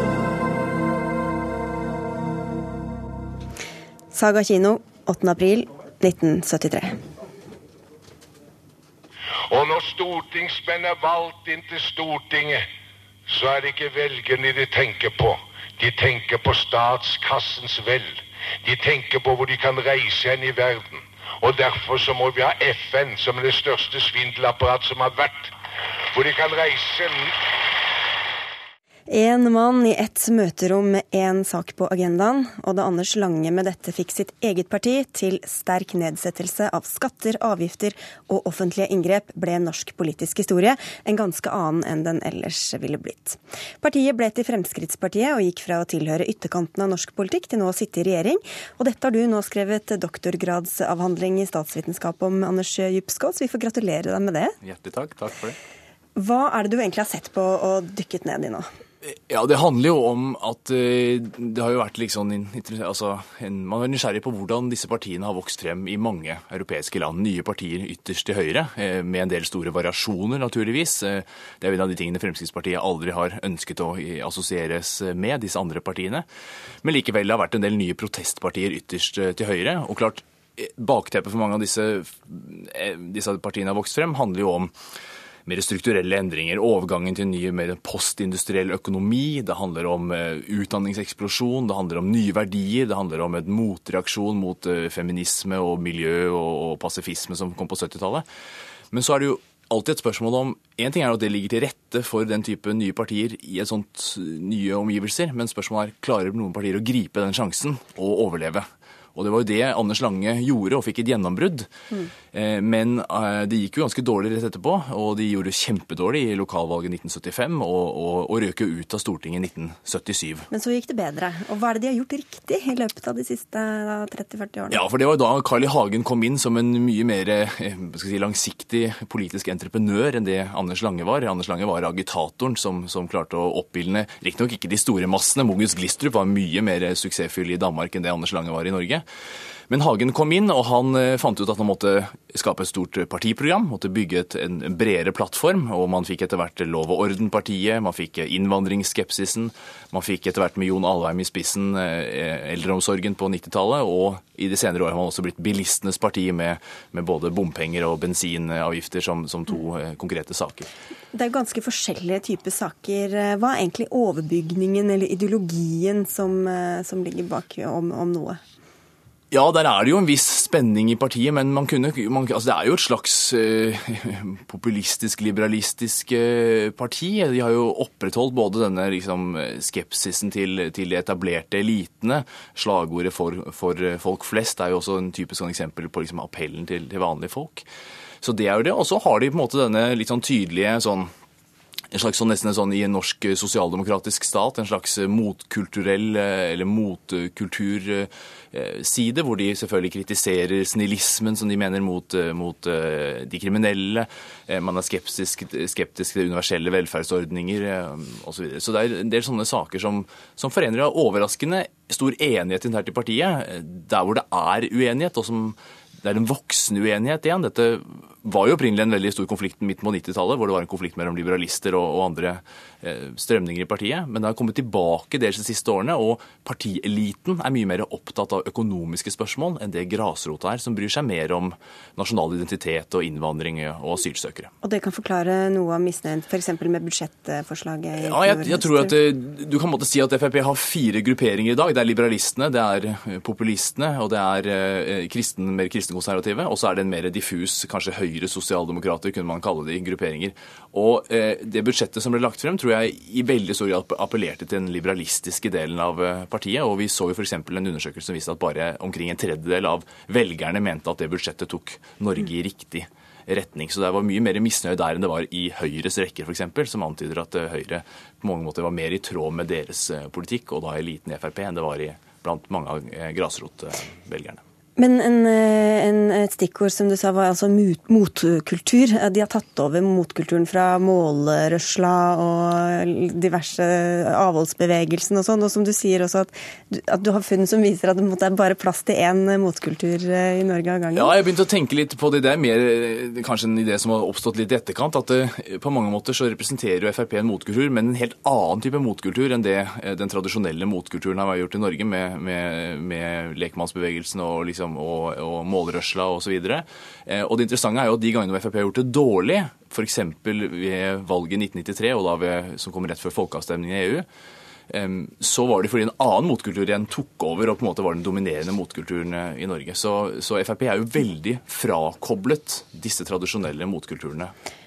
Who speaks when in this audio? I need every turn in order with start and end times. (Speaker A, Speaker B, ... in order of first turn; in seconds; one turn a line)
Speaker A: 4.1-7.0
Speaker B: 9.5-12.7
Speaker B: 13.3-25.6
Speaker B: 26.1-27.6
Speaker A: 29.1-54.6
Speaker C: 54.6-55.6
Speaker A: 56.2-58.7
Speaker C: 59.0-76.3
Speaker C: 76.8-84.7
Speaker C: 85.5-98.3
Speaker C: 98.9-111.7
Speaker C: 112.3-120.5
Speaker A: 120.5-124.8
Speaker C: 124.7-139.1
Speaker C: 139.7-160.7
Speaker A: 161.1-168.4
Speaker C: 169.3-187.7
Speaker C: 188.2-191.1
Speaker C: 191.9-234.5
Speaker A: 234.6-238.9
Speaker C: 238.0-274.4
Speaker A: 274.8-291.1
Speaker C: 290.9-314.1
Speaker C: 314.7-324.3